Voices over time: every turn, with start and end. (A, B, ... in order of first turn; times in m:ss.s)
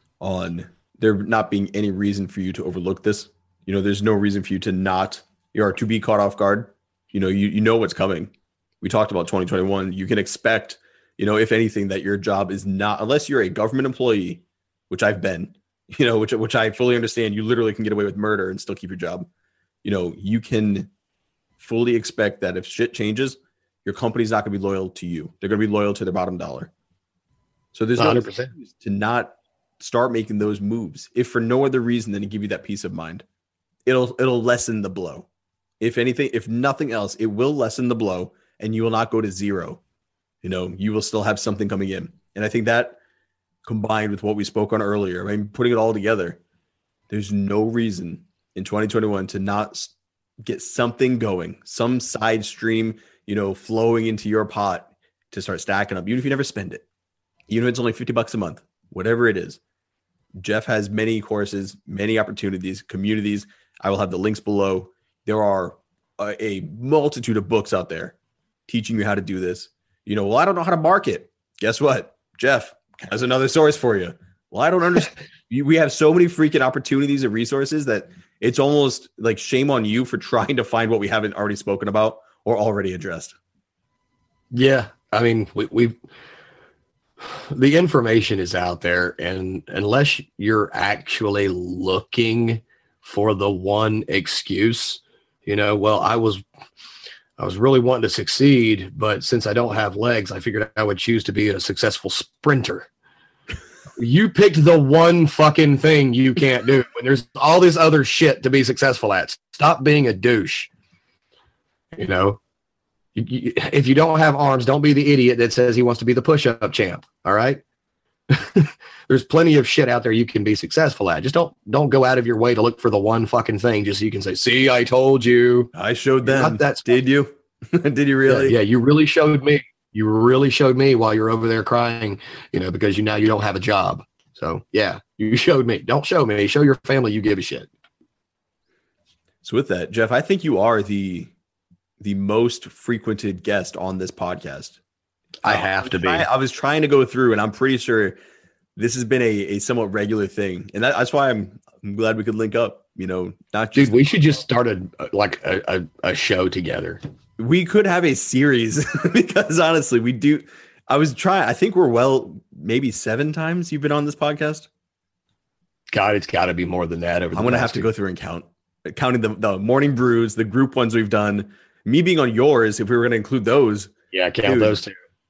0:00.2-0:19.3 A
0:19.8-0:20.9 A
0:21.6-0:26.7 A
0:27.7-0:33.2 A
0:28.0-0:28.5 B
0:33.9-0:35.3 A
0:35.8-0:39.8 A
0:40.4-0:43.0 A
0:43.6-0:46.4 A
0:47.1-0:56.8 A
0:57.5-0:59.6 A
1:00.4-1:08.2 A
1:08.7-1:23.4 A
1:24.5-1:26.0 B
1:27.3-1:36.4 B
1:37.4-1:42.9 B
1:44.0-1:50.7 B
1:52.0-1:52.4 B
1:53.2-1:57.6 B
1:58.3-2:05.7 B
2:05.7-2:08.6 A
2:06.2-2:07.0 B
2:08.3-2:17.7 B
2:19.4-2:21.3 A
2:22.0-2:24.8 A
2:25.4-2:26.3 B
2:25.4-2:28.2 A
2:28.8-2:34.1 A
2:33.8-2:37.0 B
2:37.4-2:44.7 A
2:45.9-2:47.9 B
2:47.4-2:53.9 A
2:54.1-2:54.9 B
2:54.4-2:54.8 A